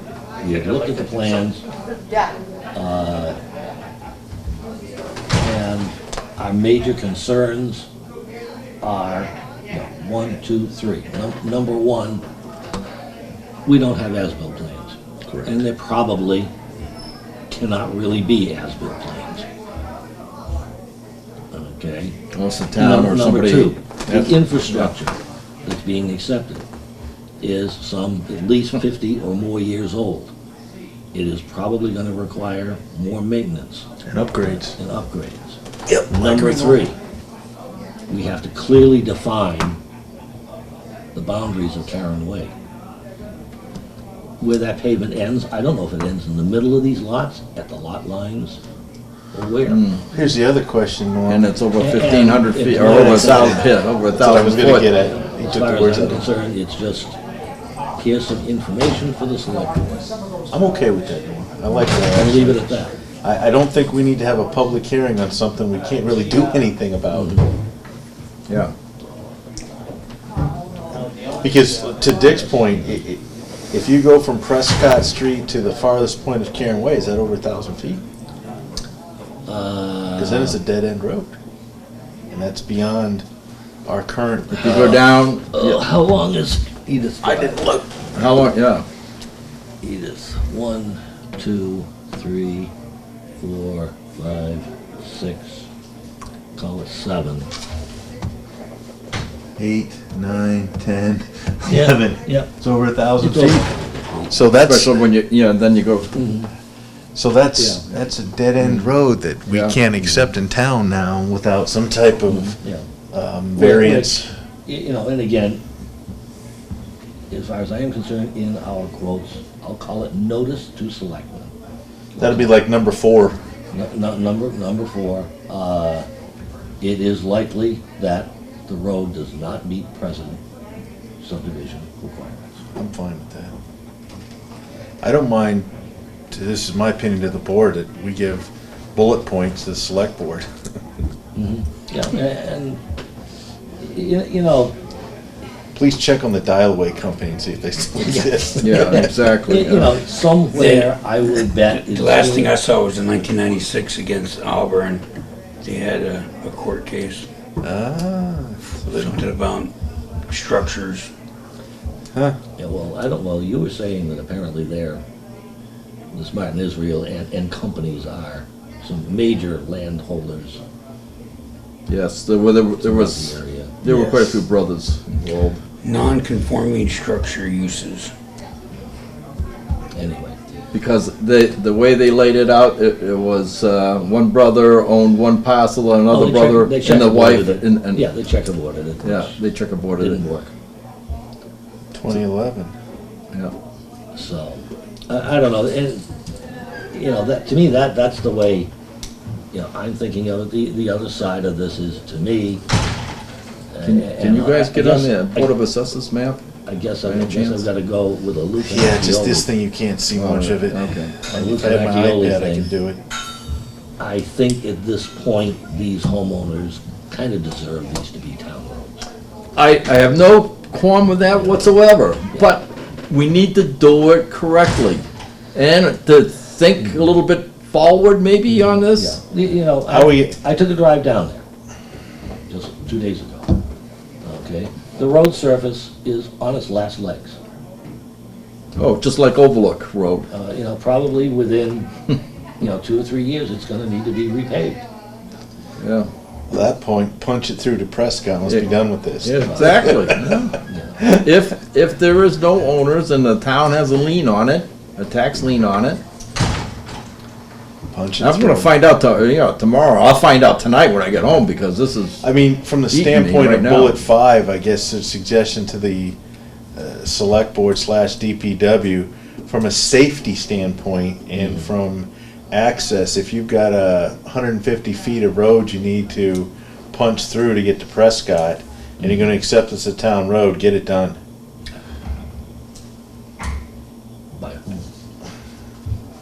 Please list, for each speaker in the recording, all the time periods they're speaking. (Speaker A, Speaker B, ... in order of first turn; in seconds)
Speaker A: 0.4-1.6, 2.7-3.4, 5.4-7.9, 8.8-12.2, 13.7-16.5, 17.5-19.4, 21.5-22.2, 22.8-26.6, 27.4-30.3, 31.1-33.9, 34.4-37.0, 38.1-39.8, 41.1-42.5, 44.4-48.6, 49.3-49.9, 51.8-53.7, 55.0-57.1, 58.0-60.1, 62.1-62.9, 67.1-67.5, 79.5-80.6, 84.5-87.7, 89.8-92.7, 93.4-95.7, 96.6-97.5, 101.7-102.5, 103.2-104.4, 106.1-106.5, 112.3-112.9, 113.6-115.6, 117.3-121.5, 122.2-122.5, 123.7-126.1, 126.8-130.4, 131.2-132.6, 141.4-142.8, 143.8-144.7, 148.0-152.5, 162.6-165.0, 166.1-170.6, 172.8-173.8, 179.9-180.4, 186.1-189.4, 190.0-190.5, 194.2-196.1, 196.9-198.7, 199.5-202.6, 203.7-205.5, 206.7-209.5, 211.3-212.7, 214.0-219.1, 221.4-221.7, 228.9-231.4, 232.5-233.6, 234.2-237.4, 240.3-241.9, 242.6-244.8, 249.4-251.1, 284.4-284.8
Speaker B: 15.3-15.6, 22.3-24.9, 49.7-50.0, 51.3-54.9, 84.6-85.8, 88.1-88.8, 104.6-106.2, 108.6-108.9, 109.5-109.8, 148.6-150.0, 171.9-175.6, 180.7-188.1, 189.0-190.2, 203.8-206.4, 207.1-207.7, 210.2-211.2, 219.6-229.2, 238.8-240.3, 245.8-246.1, 249.2-250.6, 251.1-256.0, 258.2-262.2, 262.9-264.0
Speaker C: 34.0-34.7, 50.1-51.5, 53.0-53.5, 54.1-56.3, 60.5-67.5, 71.4-73.2, 73.7-78.0, 80.2-81.3, 82.3-83.2, 83.9-85.0, 99.6-103.7, 104.3-105.0, 107.2-112.6, 113.1-114.3, 122.2-123.4, 132.8-133.6, 135.0-135.7, 136.3-140.5, 145.8-149.1, 157.6-159.2, 191.9-192.7, 208.6-213.0, 229.9-230.4, 246.5-250.2, 257.9-258.7, 262.2-266.2, 266.8-281.2
Speaker D: 35.9-36.8, 87.2-87.8, 150.5-155.1, 155.6-157.3, 158.9-159.7, 160.3-161.1, 175.8-178.1